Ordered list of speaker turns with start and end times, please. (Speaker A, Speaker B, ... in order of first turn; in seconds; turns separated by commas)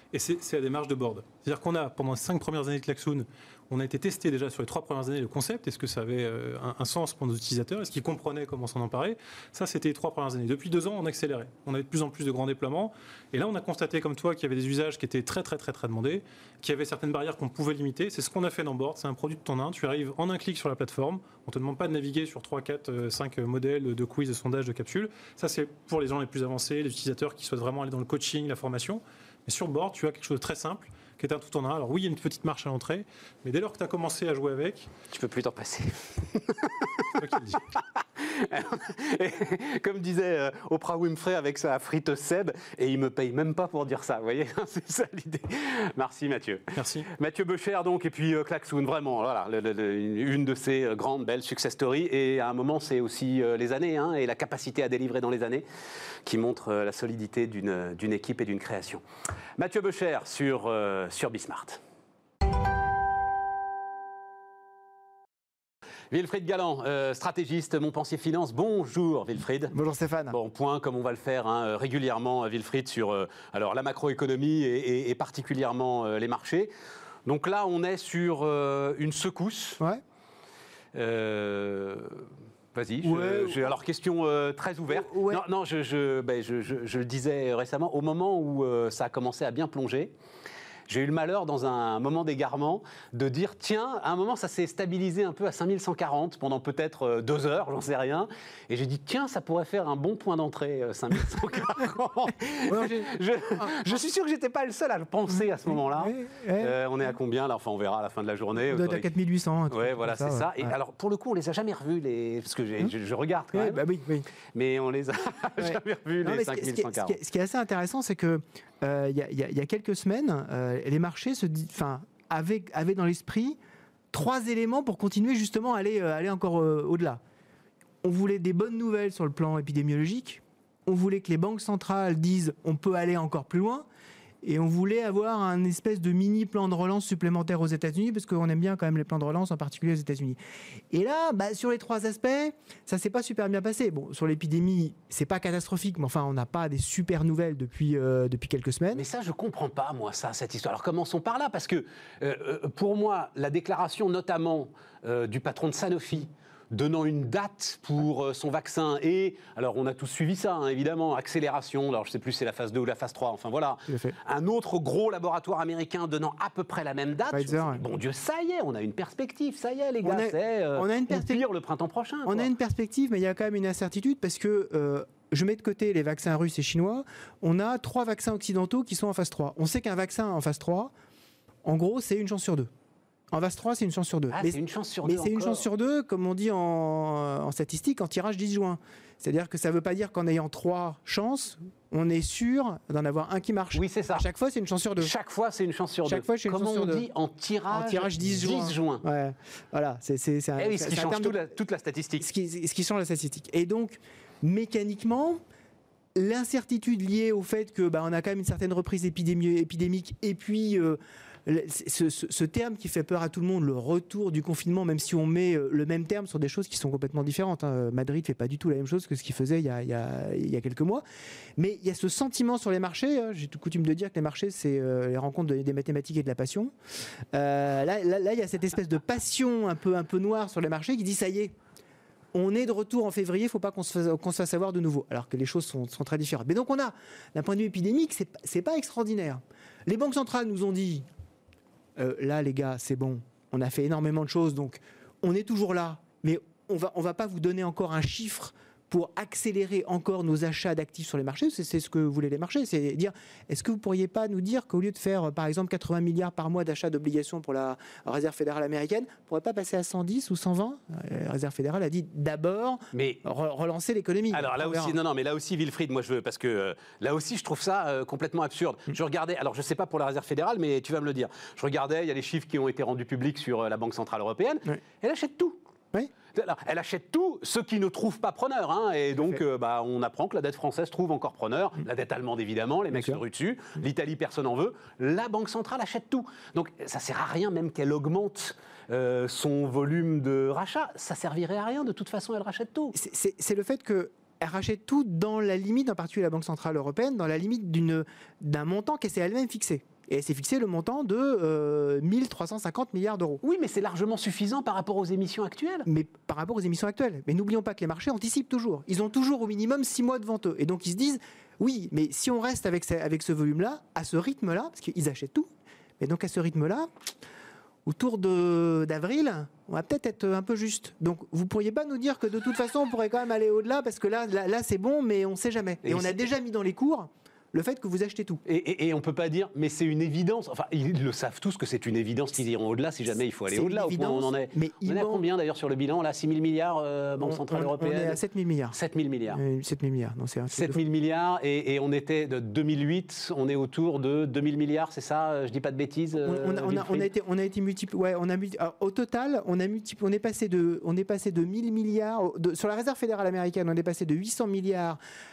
Speaker A: 0.1-34.9, Speaker B: 35.1-37.1, Speaker A: 37.2-37.6, Speaker B: 38.2-55.6, Speaker A: 46.7-47.1, Speaker B: 56.2-59.0, Speaker B: 59.6-61.8, Speaker B: 66.1-69.7, Speaker C: 69.7-70.3, Speaker B: 70.3-76.7, Speaker B: 77.2-79.8, Speaker B: 80.9-90.1, Speaker C: 83.0-83.8, Speaker C: 84.9-85.4, Speaker B: 90.9-109.1, Speaker C: 102.7-104.0, Speaker C: 105.3-106.8, Speaker C: 108.7-110.8, Speaker B: 109.7-113.8, Speaker C: 113.5-114.3, Speaker B: 114.5-117.2, Speaker C: 115.6-123.6, Speaker C: 124.1-127.2, Speaker C: 128.0-133.8, Speaker C: 134.4-140.4, Speaker C: 140.9-149.0, Speaker B: 148.9-172.5, Speaker C: 163.9-164.2, Speaker C: 167.3-167.8, Speaker C: 170.0-171.4, Speaker C: 172.2-180.9, Speaker C: 181.6-182.7, Speaker C: 183.3-195.1, Speaker B: 184.3-185.7, Speaker B: 193.7-194.3, Speaker B: 195.0-199.0, Speaker C: 196.0-197.1, Speaker C: 197.7-201.4, Speaker B: 200.6-202.3, Speaker C: 202.2-205.4, Speaker C: 206.2-221.0, Speaker C: 221.6-226.7, Speaker C: 227.3-231.5, Speaker C: 232.3-241.1, Speaker C: 242.0-265.0, Speaker B: 262.9-263.2, Speaker B: 264.3-275.6, Speaker B: 276.3-292.9, Speaker C: 282.9-283.2, Speaker C: 292.9-303.4, Speaker B: 303.4-305.9, Speaker C: 305.9-315.5, Speaker C: 316.0-316.9, Speaker C: 317.9-328.4, Speaker B: 325.8-326.3, Speaker B: 328.4-338.2, Speaker C: 333.5-335.2, Speaker C: 337.2-338.8, Speaker B: 338.7-339.4, Speaker C: 339.3-340.8, Speaker B: 340.5-347.1, Speaker C: 346.2-355.0